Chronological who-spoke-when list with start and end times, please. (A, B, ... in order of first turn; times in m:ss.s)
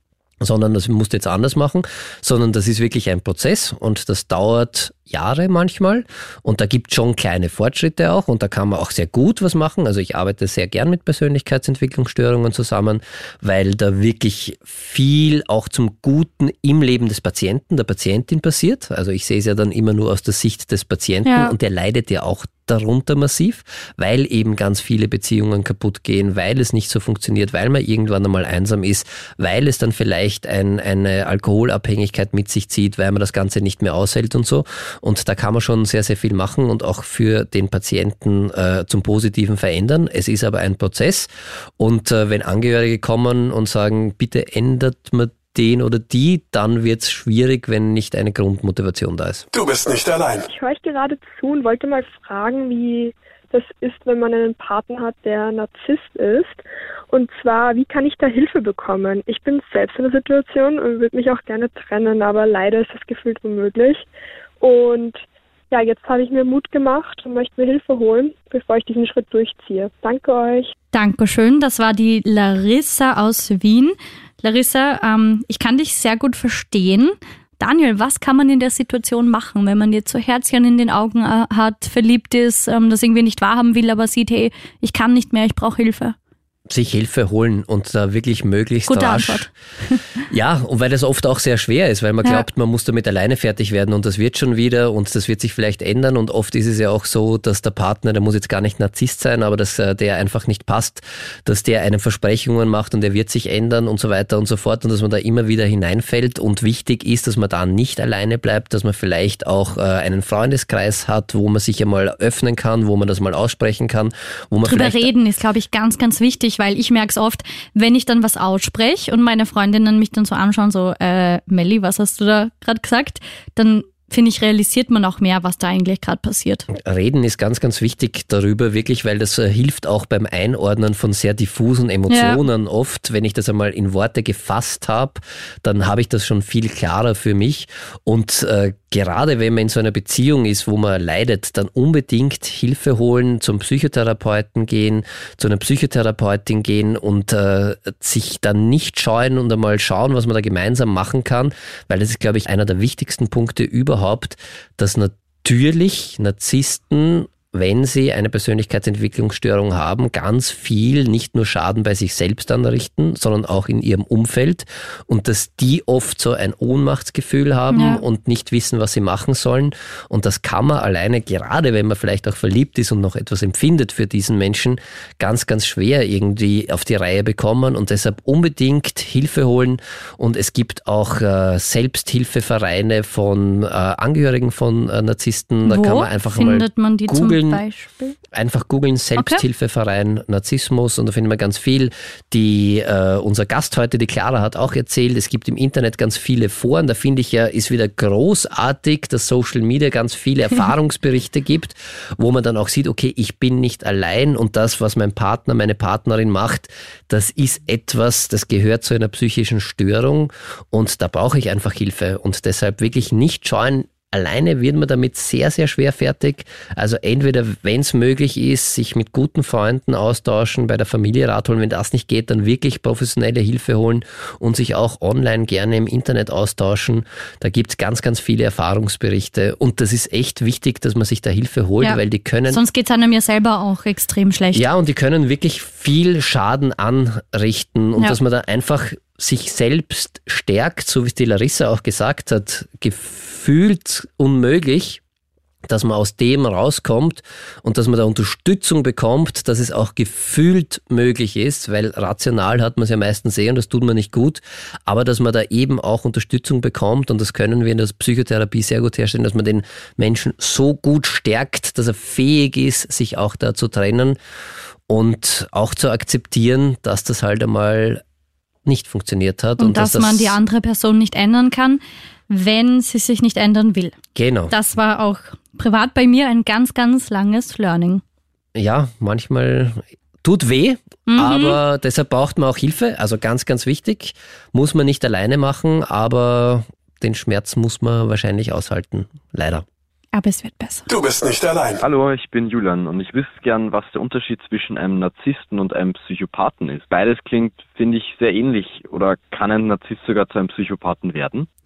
0:00.4-0:49.5 A
0:21.2-0:21.5 B
0:49.5-0:50.5 C
0:50.5-1:04.1 D
1:04.6-1:05.2 D
1:05.7-1:10.7 D
1:10.9-1:26.2 B
1:26.7-1:29.5 A
1:28.9-1:30.2 B
1:30.3-1:55.1 A
1:54.6-2:06.7 B
2:06.7-3:07.6 A
2:12.1-2:12.4 B
2:47.7-2:48.0 B
3:05.6-3:08.2 B
3:08.3-3:52.6 A
3:09.2-3:09.4 B
3:51.8-3:54.6 B
3:54.5-4:05.0 A
4:05.7-4:24.2 A
4:24.9-4:28.0 A
4:28.6-4:30.4 A
4:29.6-4:34.0 B
4:34.2-4:34.5 A
4:34.5-4:38.0 B
4:38.6-4:49.6 A
4:41.1-4:41.6 B
4:50.1-4:50.9 B
4:50.9-4:51.8 C
4:51.8-5:01.5 E